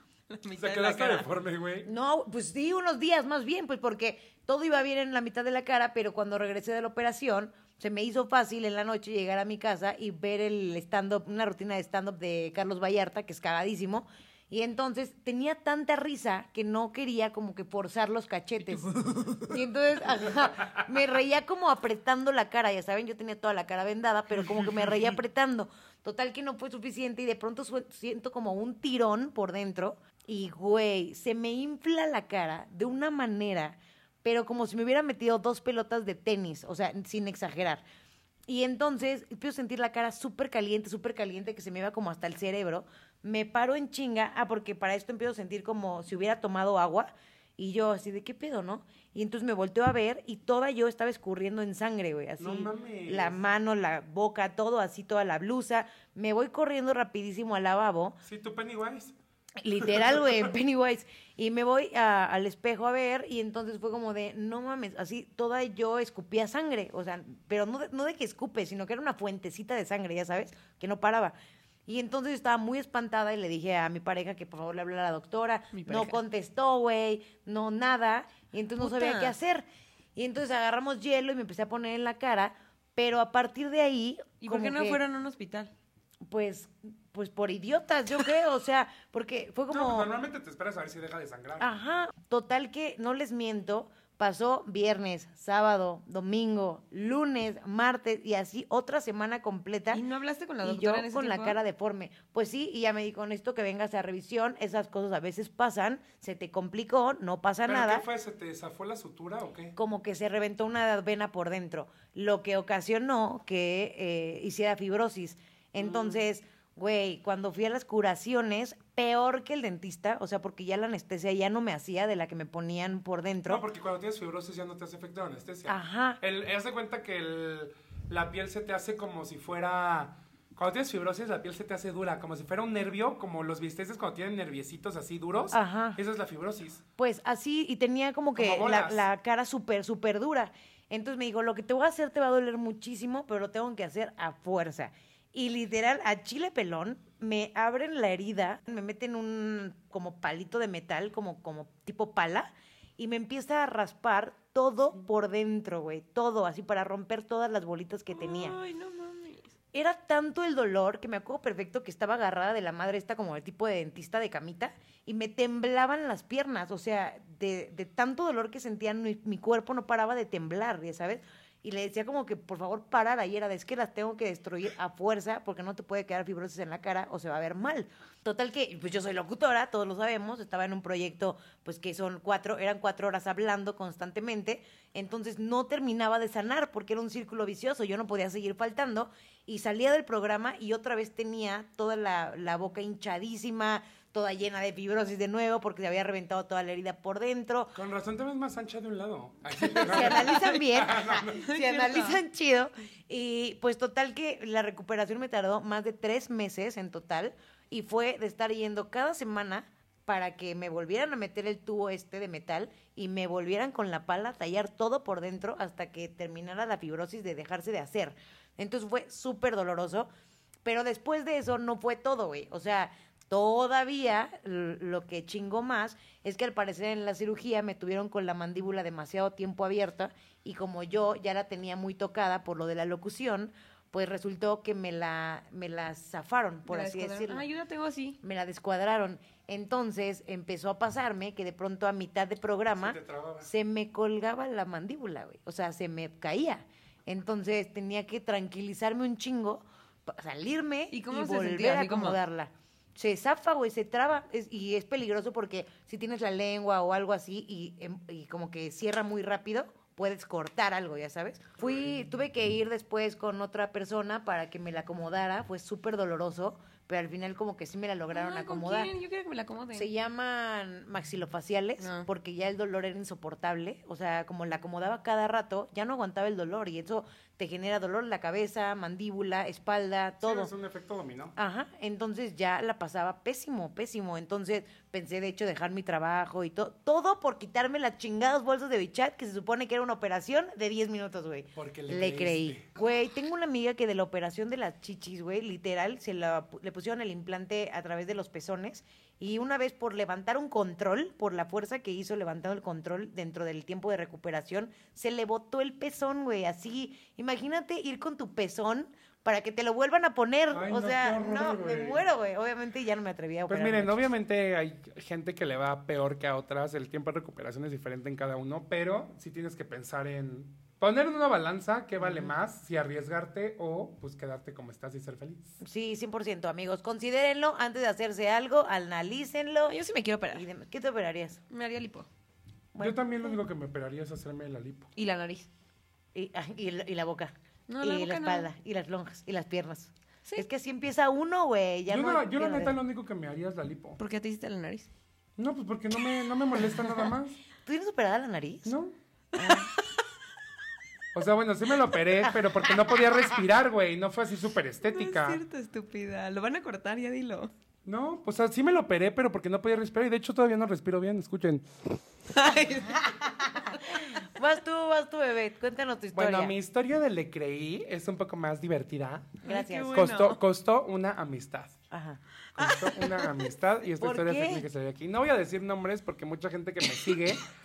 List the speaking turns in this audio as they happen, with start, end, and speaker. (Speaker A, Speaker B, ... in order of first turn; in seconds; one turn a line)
Speaker A: 0.3-1.3
Speaker B: 0.6-1.9
Speaker C: 1.9-37.8
Speaker B: 24.6-24.9
Speaker C: 38.5-58.2
Speaker B: 52.4-53.4
Speaker B: 58.2-59.1
Speaker C: 59.6-71.3
Speaker B: 59.8-60.5
Speaker C: 71.9-79.7
Speaker A: 75.7-76.2
Speaker A: 78.8-79.3
Speaker C: 80.2-85.0
Speaker A: 84.4-85.7
Speaker C: 86.3-90.1
Speaker B: 89.7-91.7
Speaker C: 91.6-100.0
Speaker A: 99.9-101.6
Speaker C: 100.6-108.0
Speaker B: 107.7-109.8
Speaker C: 109.8-123.6
Speaker B: 115.8-116.1
Speaker B: 123.5-136.8
Speaker C: 125.7-126.2
Speaker C: 135.5-136.0
Speaker C: 137.0-158.6
Speaker B: 138.4-139.1
Speaker A: 158.1-159.5
Speaker C: 159.7-197.8
Speaker B: 197.7-201.5
Speaker C: 199.6-220.1
Speaker A: 199.7-200.6
Speaker A: 201.3-202.2
Speaker C: 220.7-237.5
Speaker A: 236.7-238.2
Speaker C: 238.2-268.9
Speaker B: 242.8-243.5
Speaker A: 250.9-252.2
Speaker A: 268.1-269.9
Speaker C: 269.7-280.5
Speaker A: 271.8-272.1
Speaker B: 280.2-281.3
Speaker C: 281.4-314.0
Speaker B: 291.6-292.7
Speaker B: 310.5-312.0
Speaker B: 313.5-325.6
Speaker C: 322.0-322.3
Speaker C: 325.6-329.8
Speaker A: 329.7-330.5
Speaker C: 330.3-331.4
Speaker A: 331.5-332.1
Speaker C: 332.8-333.0
Speaker B: 332.8-334.9
Speaker A: 335.0-335.5
Speaker C: 336.1-342.8
Speaker A: 337.7-338.5
Speaker B: 341.9-344.0
Speaker A: 344.0-344.9
Speaker B: 345.4-347.4
Speaker C: 347.6-348.8
Speaker B: 348.6-348.9
Speaker C: 349.4-349.7
Speaker B: 351.1-355.4
Speaker A: 354.8-357.5
Speaker B: 357.9-362.0
Speaker A: 362.3-363.2
Speaker C: 362.9-366.6
Speaker B: 366.1-369.4
Speaker C: 369.4-369.9
Speaker A: 369.4-370.4
Speaker B: 369.9-371.8
Speaker C: 371.9-372.8
Speaker B: 372.6-377.5
Speaker A: 372.6-373.4
Speaker C: 374.0-374.7
Speaker A: 376.9-377.4